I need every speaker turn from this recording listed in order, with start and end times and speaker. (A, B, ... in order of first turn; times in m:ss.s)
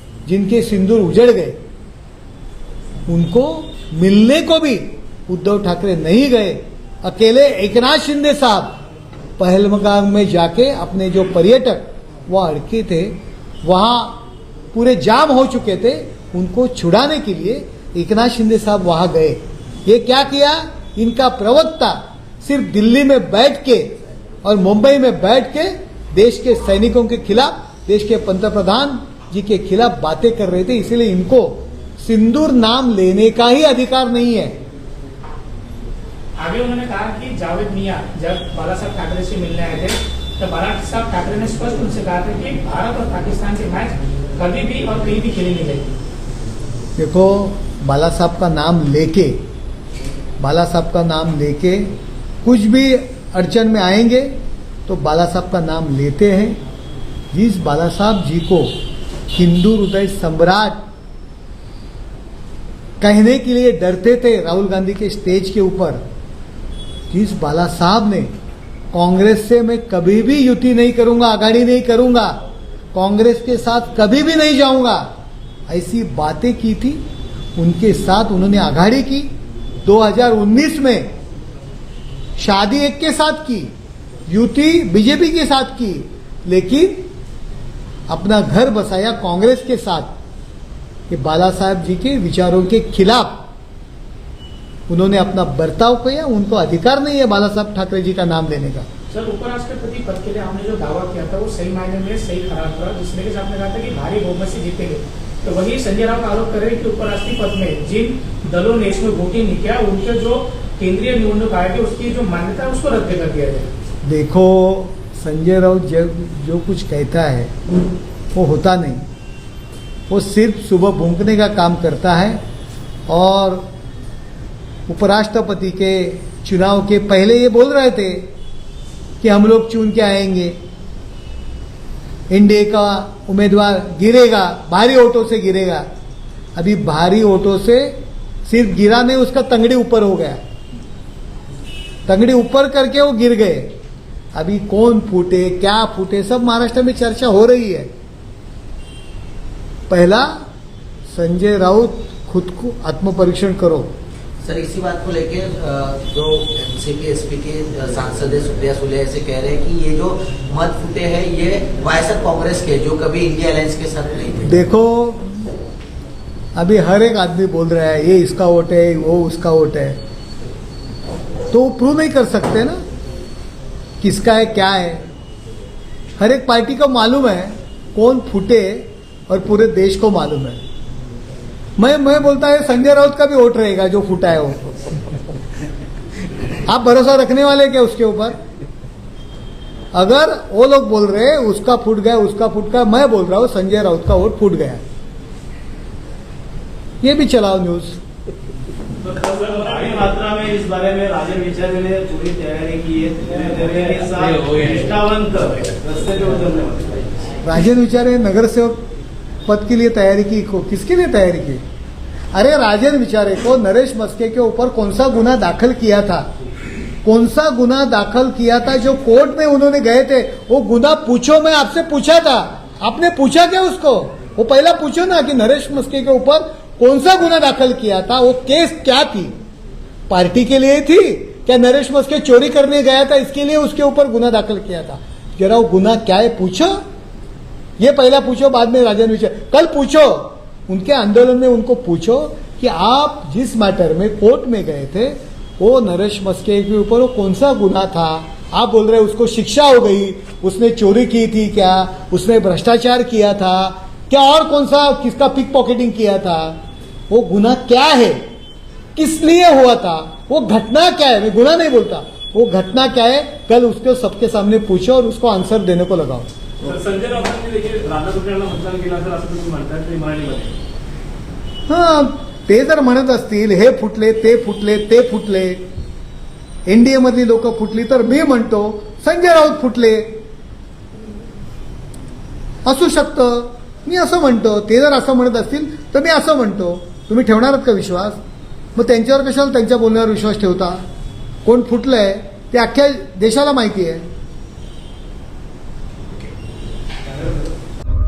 0:00.3-0:01.6 A
0:03.1-0:08.8 A
0:09.4-0:34.6 A
0:36.4-0:45.9 B
0:47.0-0:49.4 A
0:50.4-0:51.9 A
0:52.4-0:54.3 A
0:54.9-0:56.6 A
0:57.3-0:58.7 A
0:59.3-1:00.8 A
1:03.0-1:06.0 A
1:07.1-1:08.3 A
1:08.9-1:12.4 A
1:12.9-1:15.1 A
1:15.7-1:17.0 A
1:17.6-1:19.3 A
1:19.8-1:21.1 A
1:22.4-1:23.7 A
1:24.3-1:27.1 A
1:28.1-1:30.1 A
1:31.1-1:33.4 A
1:34.9-1:38.9 A
1:39.1-1:53.7 B
1:54.0-1:57.5 A
1:58.3-1:59.0 A
2:00.1-2:02.4 A
2:03.1-2:03.7 A
2:04.9-2:08.3 A
2:09.2-2:10.6 A
2:12.3-2:15.9 A
2:16.6-2:20.4 A
2:22.1-2:23.8 A
2:24.3-2:27.9 A
2:29.9-2:30.3 A
2:31.1-2:33.9 A
2:34.4-2:44.6 C
2:44.4-2:45.5 A
2:46.6-2:50.0 A
2:51.5-2:52.8 A
2:54.0-2:55.0 A
2:56.2-3:00.6 A
3:01.8-3:05.0 A
3:06.6-3:08.4 A
3:09.9-3:14.8 A
3:17.0-3:18.0 A
3:19.0-3:27.4 D
3:19.6-3:20.1 B
3:27.4-3:28.9 A
3:29.5-3:31.6 A
3:32.3-3:36.3 A
3:37.0-3:49.3 A
3:50.1-3:56.8 A
3:57.8-4:18.2 A
4:19.0-4:26.3 A
4:26.6-4:30.5 D
4:31.7-4:35.6 A
4:36.6-4:40.2 A
4:42.6-4:48.2 A
4:48.8-4:50.8 A
4:51.4-4:54.1 A